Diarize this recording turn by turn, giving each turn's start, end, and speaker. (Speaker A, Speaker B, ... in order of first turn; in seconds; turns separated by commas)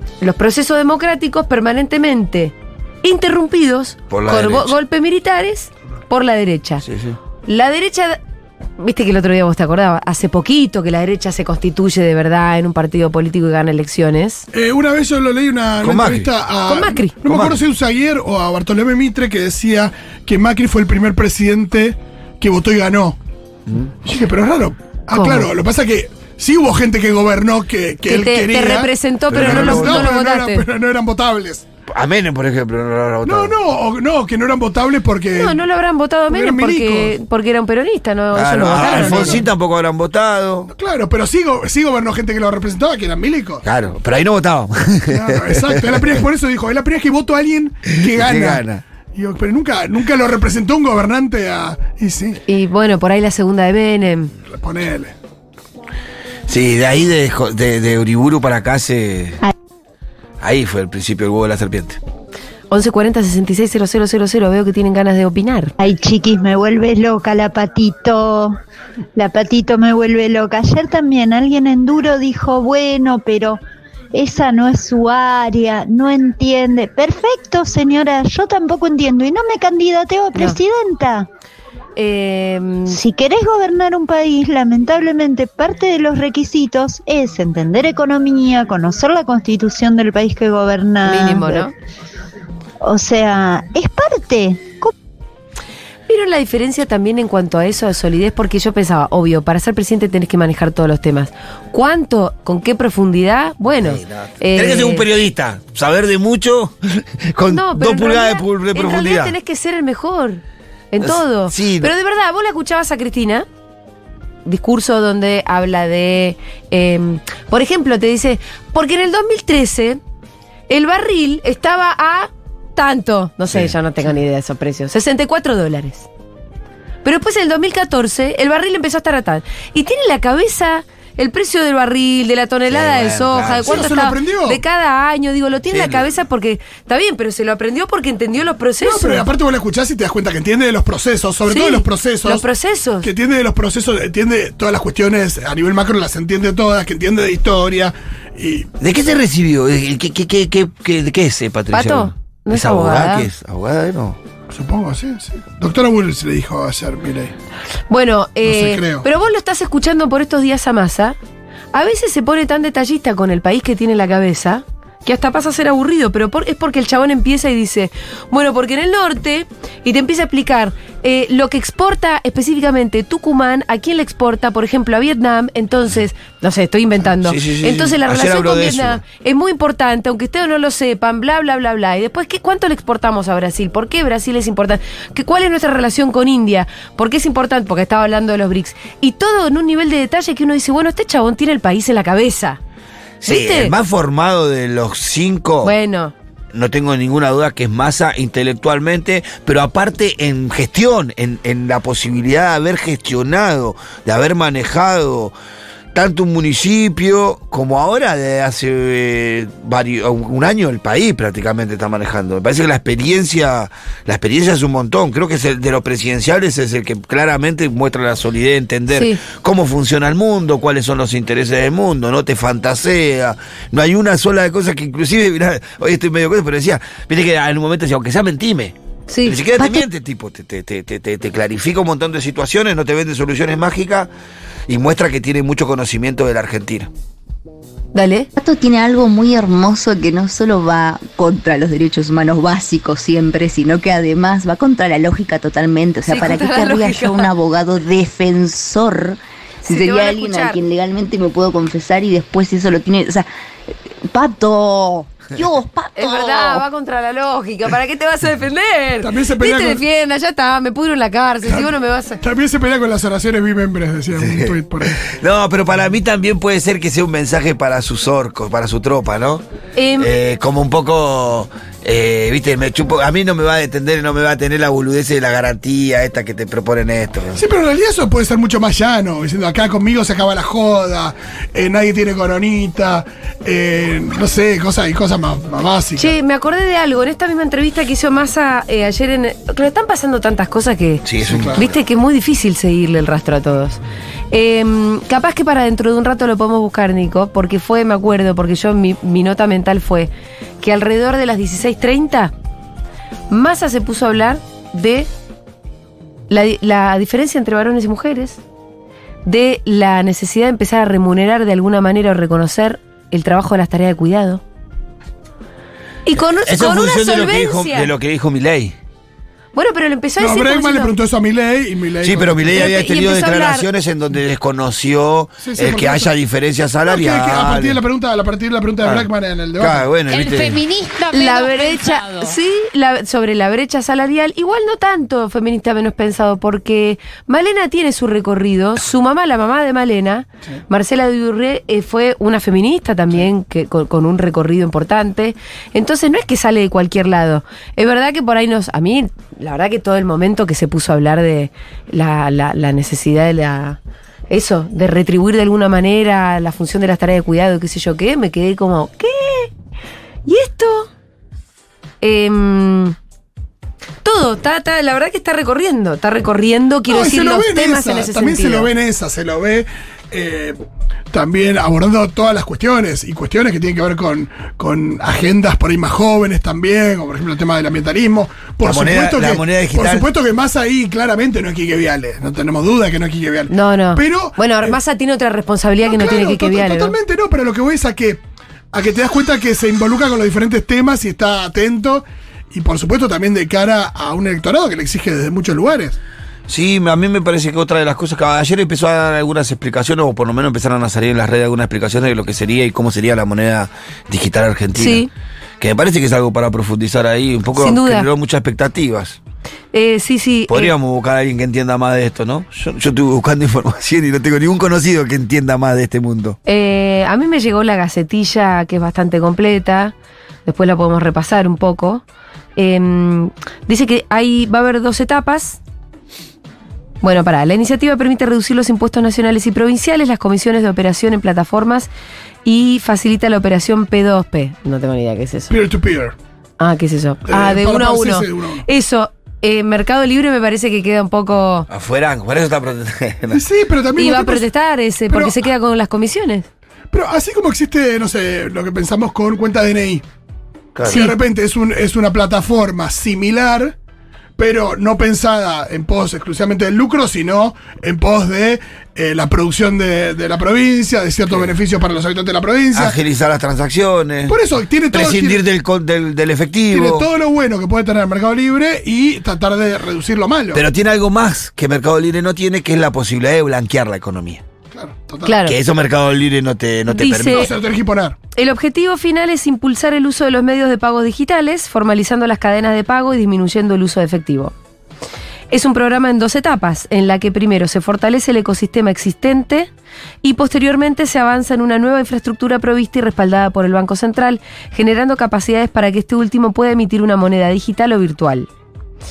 Speaker A: 0.2-6.8, Speaker B: 4.1-4.8, Speaker B: 6.8-7.2, Speaker A: 7.5-8.2, Speaker A: 8.8-14.5, Speaker C: 14.5-23.2, Speaker B: 15.8-16.3, Speaker A: 16.7-17.2, Speaker B: 17.2-17.6, Speaker C: 24.0-31.7, Speaker A: 25.1-25.5, Speaker A: 28.1-30.7, Speaker B: 29.3-30.1, Speaker B: 31.9-33.5, Speaker C: 33.2-35.6, Speaker A: 35.3-39.4, Speaker C: 36.3-37.2, Speaker B: 38.3-40.7, Speaker C: 38.7-39.5, Speaker C: 40.7-43.6, Speaker B: 43.6-46.2, Speaker C: 45.1-52.4, Speaker B: 48.0-48.8, Speaker A: 52.5-54.3, Speaker C: 54.5-55.1, Speaker B: 56.5-59.4, Speaker B: 60.4-62.0, Speaker A: 62.7-65.7, Speaker D: 65.8-68.6, Speaker D: 69.2-73.6, Speaker D: 74.1-81.3, Speaker A: 80.3-80.6, Speaker A: 82.0-83.0, Speaker D: 82.9-91.7, Speaker A: 91.0-91.7, Speaker D: 92.8-94.9, Speaker A: 96.1-105.1, Speaker B: 103.7-109.4, Speaker A: 107.5-113.5, Speaker B: 111.0-111.9, Speaker A: 114.5-120.0, Speaker A: 120.7-126.1, Speaker B: 123.5-123.8, Speaker A: 127.0-139.3, Speaker B: 132.7-133.9, Speaker C: 133.7-134.6, Speaker B: 135.7-136.1, Speaker C: 138.8-142.4, Speaker A: 141.5-143.1, Speaker C: 143.0-148.7, Speaker B: 148.8-154.2, Speaker A: 151.7-153.3, Speaker C: 154.5-157.3, Speaker A: 157.9-161.2, Speaker C: 158.4-159.1, Speaker A: 161.7-192.6, Speaker B: 177.2-179.0, Speaker B: 193.2-195.8, Speaker A: 193.3-193.8, Speaker A: 195.6-196.1, Speaker B: 196.5-205.4, Speaker B: 205.9-234.1, Speaker A: 218.9-219.2, Speaker A: 229.1-229.4, Speaker B: 234.7-236.9, Speaker A: 237.9-238.3, Speaker E: 238.4-253.3, Speaker A: 246.1-247.3, Speaker A: 249.7-250.6, Speaker E: 254.1-256.7, Speaker A: 255.9-262.2, Speaker C: 259.0-259.8, Speaker C: 261.5-261.7, Speaker C: 262.2-265.0, Speaker B: 264.2-269.4, Speaker A: 269.8-270.1, Speaker B: 270.0-277.4, Speaker C: 277.4-286.1, Speaker A: 286.0-293.8, Speaker B: 291.1-291.8, Speaker C: 291.2-291.6, Speaker A: 294.3-302.3, Speaker A: 303.3-305.1, Speaker A: 306.3-308.4, Speaker A: 309.3-314.4, Speaker A: 316.1-317.9, Speaker B: 316.2-318.8, Speaker A: 319.6-320.9, Speaker C: 320.2-322.6, Speaker B: 322.0-327.8, Speaker A: 322.5-323.7, Speaker C: 325.4-326.1, Speaker C: 326.9-329.8, Speaker B: 329.6-330.6, Speaker F: 330.1-332.4, Speaker A: 331.1-353.8, Speaker A: 354.3-359.5, Speaker A: 360.3-360.9, Speaker A: 362.0-363.0, Speaker A: 364.0-368.7, Speaker C: 366.9-370.6, Speaker C: 371.1-384.8, Speaker B: 378.6-380.1, Speaker A: 383.5-387.0, Speaker C: 385.9-388.2, Speaker C: 388.7-396.0, Speaker B: 396.5-405.1, Speaker A: 404.8-405.1, Speaker B: 405.6-409.2, Speaker A: 407.6-408.1, Speaker A: 409.7-410.7, Speaker B: 410.5-416.4, Speaker A: 416.5-419.9, Speaker A: 420.5-422.0, Speaker A: 422.6-425.6, Speaker A: 427.0-431.9, Speaker A: 432.4-435.6, Speaker C: 435.5-436.1, Speaker A: 436.6-441.7, Speaker C: 437.3-438.6, Speaker B: 441.7-443.4, Speaker C: 443.3-444.5, Speaker A: 444.0-446.5, Speaker C: 445.1-445.4, Speaker C: 446.9-450.0, Speaker B: 450.8-451.0, Speaker C: 450.9-453.8, Speaker A: 450.9-451.1, Speaker C: 454.4-463.0, Speaker B: 462.7-464.4, Speaker C: 464.3-465.4, Speaker B: 464.9-467.1, Speaker C: 466.7-470.6, Speaker B: 470.5-474.4, Speaker C: 474.7-475.4, Speaker A: 475.2-475.6, Speaker B: 475.5-477.5, Speaker A: 476.9-477.5, Speaker C: 477.3-478.2, Speaker A: 478.4-484.5, Speaker A: 485.5-489.7, Speaker A: 490.2-498.5